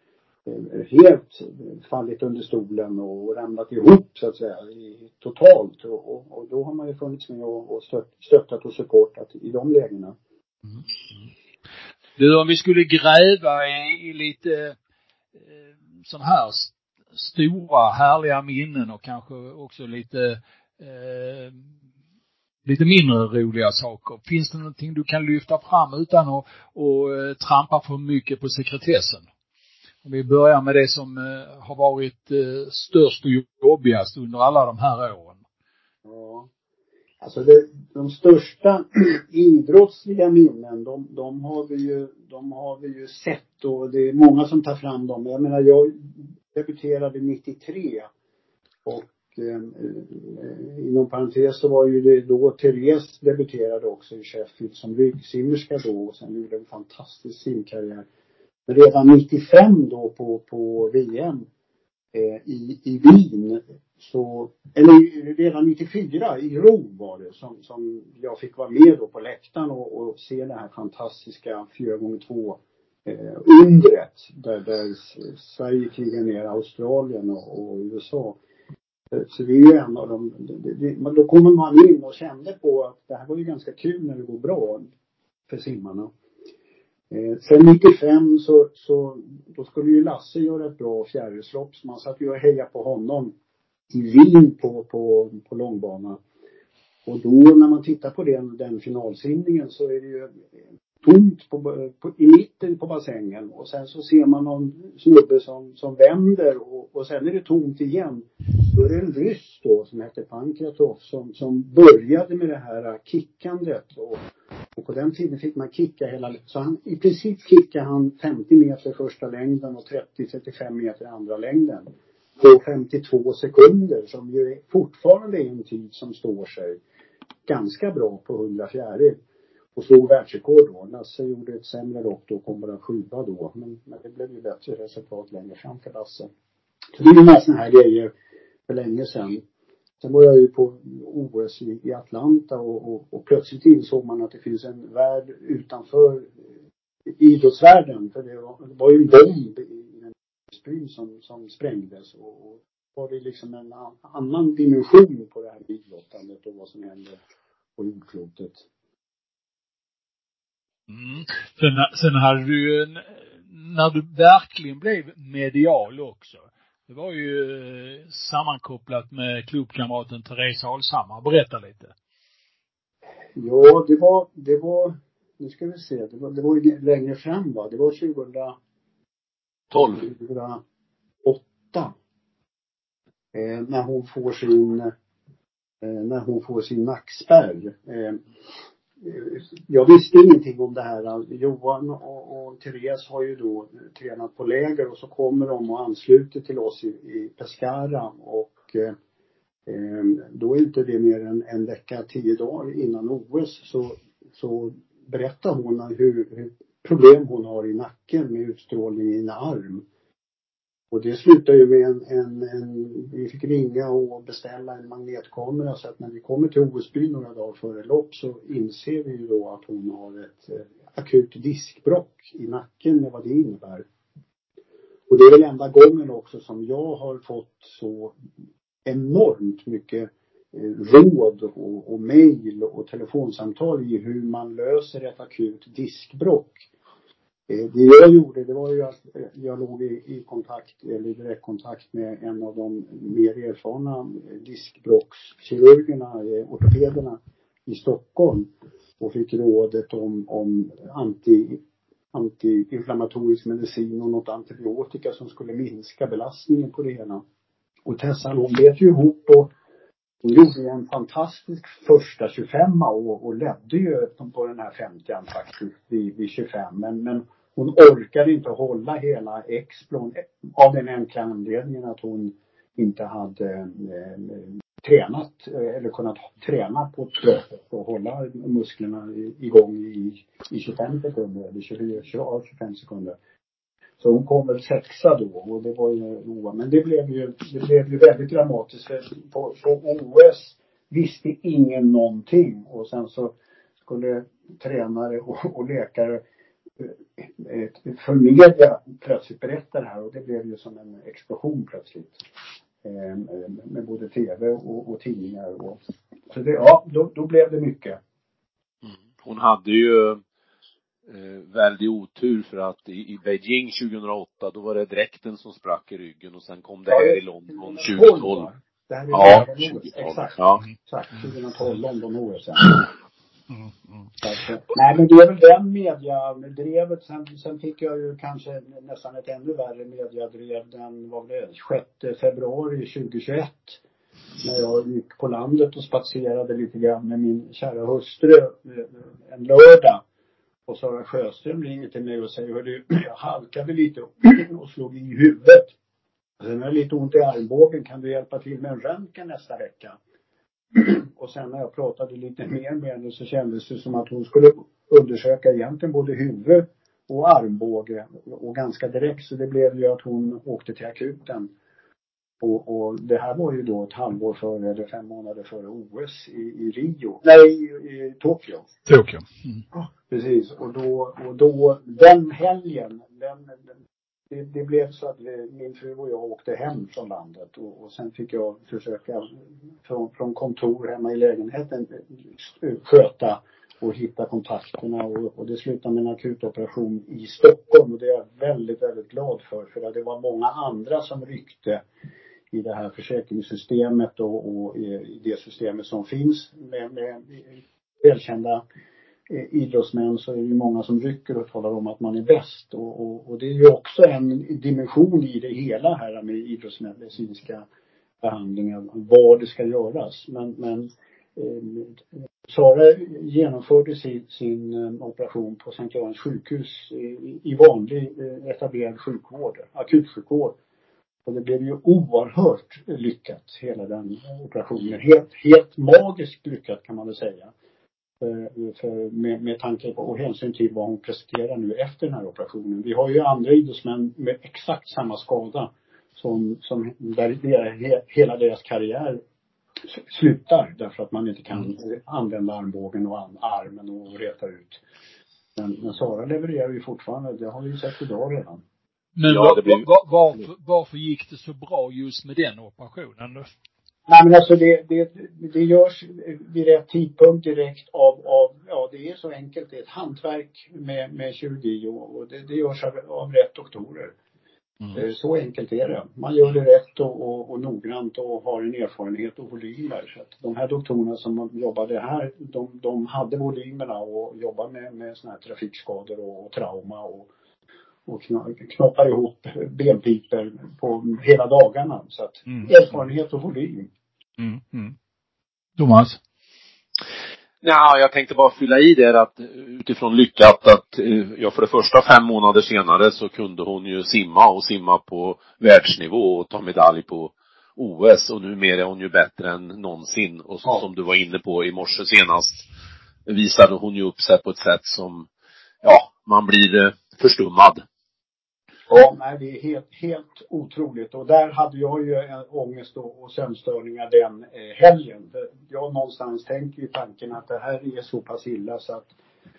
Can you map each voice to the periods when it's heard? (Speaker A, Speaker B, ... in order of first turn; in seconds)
Speaker A: 0.5-10.2, 36.0-36.5, 37.2-48.1, 48.8-58.0, 58.7-61.4, 62.1-78.4, 79.1-84.9, 85.5-86.1, 87.1-93.3, 93.9-96.2, 97.0-100.4, 101.0-114.2, 114.8-126.8, 127.5-129.2, 129.8-136.3, 137.0-138.1, 138.7-139.4, 140.0-146.3, 147.2-157.2, 157.8-158.6, 173.3-178.6, 179.8-180.6, 181.2-181.9, 183.3-184.9, 185.8-188.2, 189.0-198.9, 199.7-209.8, 210.9-223.8, 225.1-228.2, 228.8-236.6, 237.5-251.6, 252.1-257.2, 257.9-259.5, 260.2-283.1, 284.0-293.3, 293.9-296.2, 296.8-302.2, 302.8-308.0, 316.9-322.9, 324.2-333.8, 334.4-340.0, 340.7-345.7, 346.4-350.0, 350.7-361.5, 362.4-368.7, 369.7-373.6, 374.3-391.8, 392.5-398.6, 399.3-407.6, 408.2-420.6, 421.2-427.5, 428.2-439.2, 439.9-444.8, 445.6-448.6, 454.1-464.1, 464.9-477.3, 478.1-483.9, 508.9-519.1
Speaker B: 12.2-14.8, 15.3-21.7, 22.6-29.2, 30.0-35.4, 160.9-171.9, 368.9-369.6, 449.1-453.5, 484.4-484.9, 485.8-486.2
Speaker C: 179.7-180.1, 308.8-310.2, 311.1-318.5, 319.1-320.6, 449.2-449.9, 487.6-502.6, 503.2-505.3, 505.8-507.8